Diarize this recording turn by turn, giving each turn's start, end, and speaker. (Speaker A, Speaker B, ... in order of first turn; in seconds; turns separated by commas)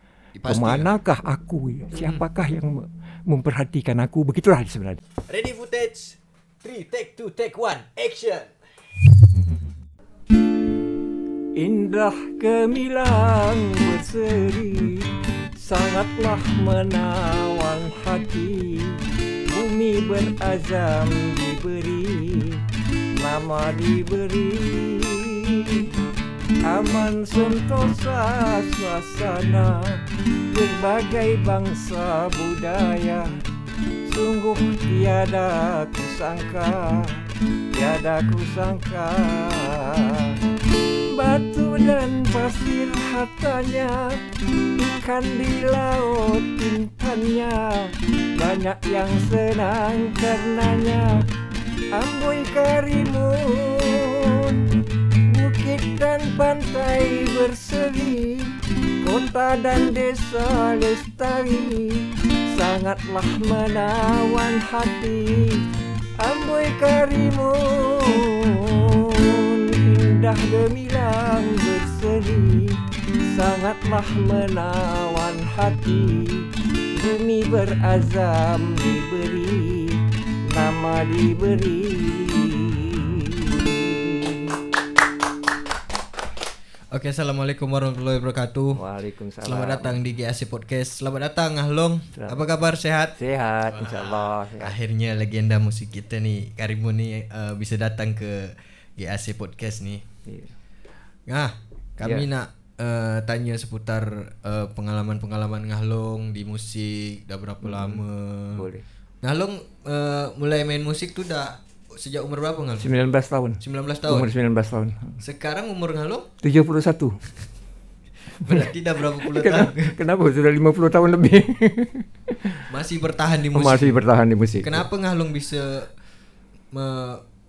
Speaker A: 0.3-0.9, Speaker B: 0.5-5.0, Speaker A: 1.9-2.2, Speaker A: 5.3-8.5, Speaker B: 11.6-22.6, Speaker B: 23.1-25.9, Speaker B: 26.7-33.4, Speaker B: 34.1-40.4, Speaker B: 41.1-44.2, Speaker B: 44.8-51.3, Speaker B: 51.9-65.6, Speaker B: 66.2-80.0, Speaker B: 80.5-84.6, Speaker A: 86.9-88.8, Speaker B: 88.8-90.0, Speaker A: 89.4-93.2, Speaker B: 92.1-92.4, Speaker B: 93.2-94.8, Speaker A: 93.7-100.0, Speaker B: 100.3-100.5, Speaker A: 101.3-108.7, Speaker B: 107.6-108.0, Speaker B: 108.6-108.8, Speaker A: 109.2-112.9, Speaker B: 112.8-115.2, Speaker A: 113.6-114.3, Speaker A: 115.2-116.3, Speaker B: 116.4-117.2, Speaker A: 118.4-120.0, Speaker B: 118.5-122.6, Speaker A: 122.7-124.0, Speaker B: 123.5-124.9, Speaker A: 124.6-125.9, Speaker A: 126.7-127.2